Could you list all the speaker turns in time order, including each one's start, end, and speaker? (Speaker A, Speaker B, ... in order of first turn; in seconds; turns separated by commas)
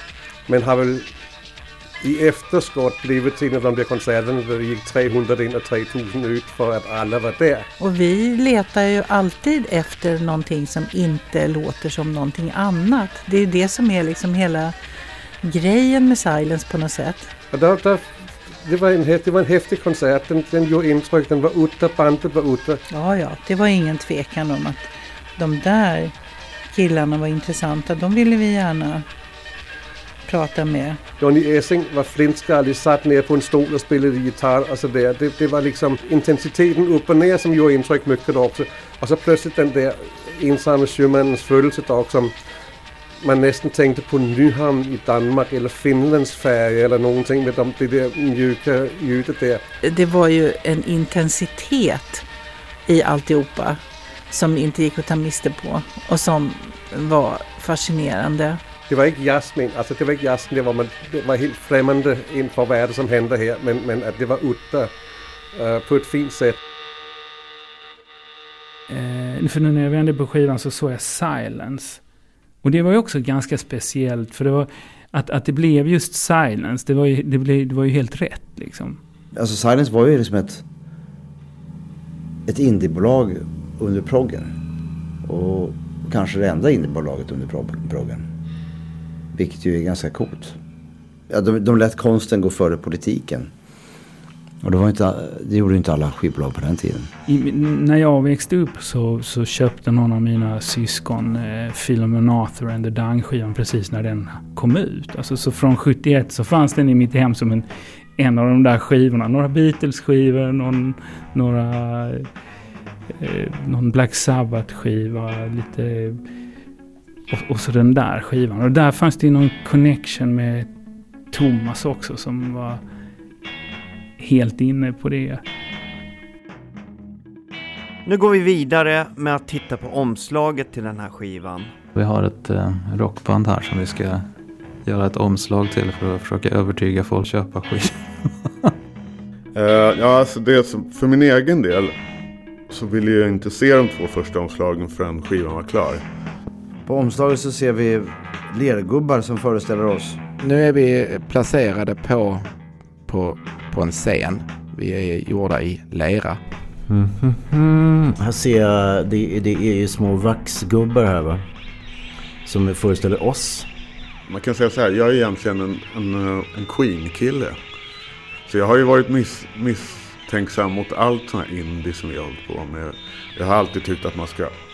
Speaker A: 0.5-1.1, Speaker A: 2.0-7.7, Speaker B: 7.8-14.7, Speaker B: 15.4-17.3, Speaker A: 17.5-22.8, Speaker B: 22.9-26.1, Speaker B: 26.7-29.1, Speaker B: 30.3-31.0, Speaker A: 31.2-42.3, Speaker A: 43.2-49.6, Speaker B: 49.8-52.2, Speaker B: 52.9-58.6, Speaker A: 58.9-64.9, Speaker A: 65.5-66.6, Speaker C: 68.9-72.0, Speaker C: 72.6-79.0, Speaker D: 79.3-80.6, Speaker D: 82.5-84.5, Speaker D: 85.2-88.3, Speaker D: 89.3-90.6, Speaker D: 91.3-93.5, Speaker D: 94.6-97.1, Speaker C: 97.3-112.3, Speaker C: 113.2-116.2, Speaker C: 117.3-120.7, Speaker C: 121.3-122.8, Speaker C: 124.2-125.4, Speaker E: 128.1-131.7, Speaker F: 131.9-134.3, Speaker F: 134.8-138.5, Speaker G: 139.5-141.9, Speaker G: 142.7-146.0, Speaker D: 146.8-150.2, Speaker H: 150.4-152.5, Speaker H: 153.1-156.4, Speaker I: 156.9-161.4, Speaker I: 162.4-163.7, Speaker G: 164.3-167.6, Speaker G: 168.5-174.6